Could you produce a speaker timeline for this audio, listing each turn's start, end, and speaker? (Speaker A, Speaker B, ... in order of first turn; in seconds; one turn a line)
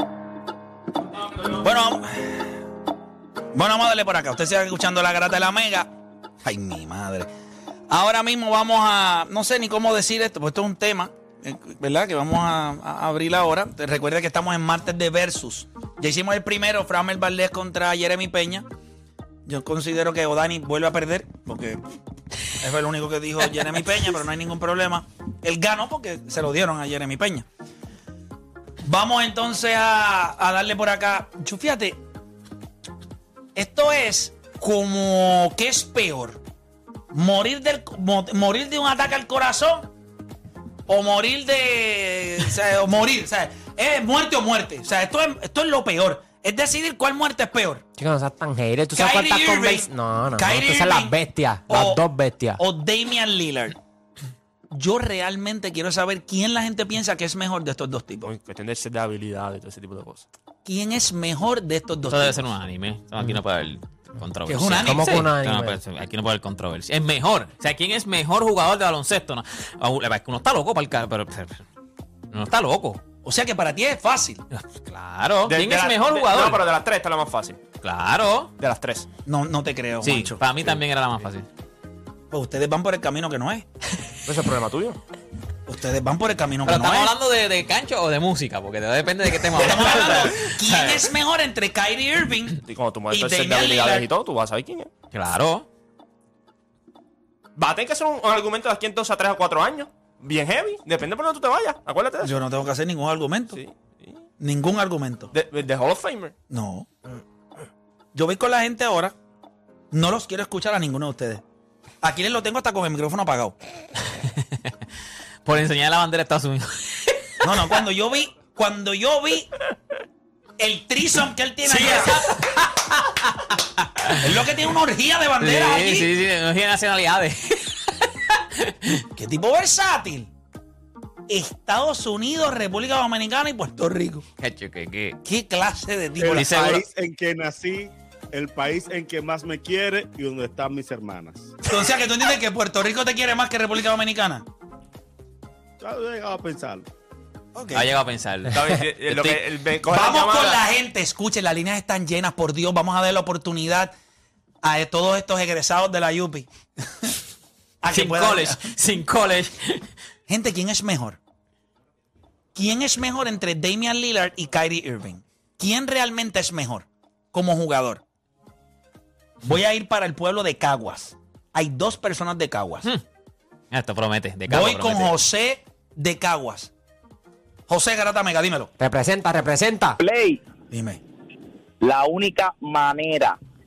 Speaker A: 1.4-2.5
Speaker A: 3.5-5.9
Speaker A: 6.4-7.3
Speaker A: 7.9-18.7
Speaker A: 19.4-21.8
Speaker A: 22.6-27.5
Speaker A: 28.8-32.0
Speaker A: 33.5-36.4
Speaker A: 37.1-39.9
Speaker A: 40.9-47.8
Speaker B: 48.0-52.6
Speaker A: 48.9-51.1
Speaker A: 51.7-52.0
Speaker A: 52.6-53.8
Speaker A: 54.7-58.3
Speaker C: 58.2-60.3
Speaker A: 60.6-62.5
Speaker D: 62.1-71.6
Speaker A: 64.5-65.3
Speaker B: 64.8-65.8
Speaker D: 72.3-73.0
Speaker A: 73.2-74.4
Speaker D: 74.5-76.7
Speaker C: 75.5-77.6
Speaker D: 77.8-78.5
Speaker C: 78.6-79.1
Speaker A: 79.2-80.4
Speaker D: 80.0-81.5
Speaker A: 82.3-83.7
Speaker C: 84.2-85.0
Speaker A: 85.7-87.1
Speaker D: 86.6-91.0
Speaker A: 89.5-92.6
Speaker C: 92.7-94.9
Speaker A: 93.1-94.1
Speaker D: 95.1-95.7
Speaker C: 97.5-102.3
Speaker A: 102.2-103.6
Speaker C: 103.5-104.2
Speaker A: 104.4-105.3
Speaker C: 105.3-106.3
Speaker A: 106.5-106.9
Speaker A: 108.1-109.1
Speaker A: 109.9-111.4
Speaker A: 112.0-113.5
Speaker D: 114.1-114.7
Speaker D: 115.4-117.3
Speaker A: 117.4-119.5
Speaker A: 120.6-122.3
Speaker D: 121.7-124.2
Speaker A: 124.2-126.1
Speaker D: 125.4-129.0
Speaker A: 129.1-130.3
Speaker A: 131.3-134.2
Speaker D: 134.4-135.2
Speaker A: 135.2-136.8
Speaker E: 136.2-141.6
Speaker D: 136.3-136.8
Speaker A: 141.7-144.4
Speaker E: 145.8-146.9
Speaker A: 147.5-147.9
Speaker D: 147.7-149.4
Speaker C: 148.5-150.6
Speaker A: 149.9-153.9
Speaker A: 154.6-157.1
Speaker A: 157.8-158.7
Speaker D: 157.9-159.9
Speaker A: 160.3-161.2
Speaker A: 162.5-168.0
Speaker A: 169.4-172.9
Speaker D: 173.7-175.1
Speaker A: 174.5-176.7
Speaker A: 177.7-178.7
Speaker B: 178.8-180.0
Speaker F: 180.0-180.4
Speaker A: 180.7-181.0
Speaker F: 181.8-183.4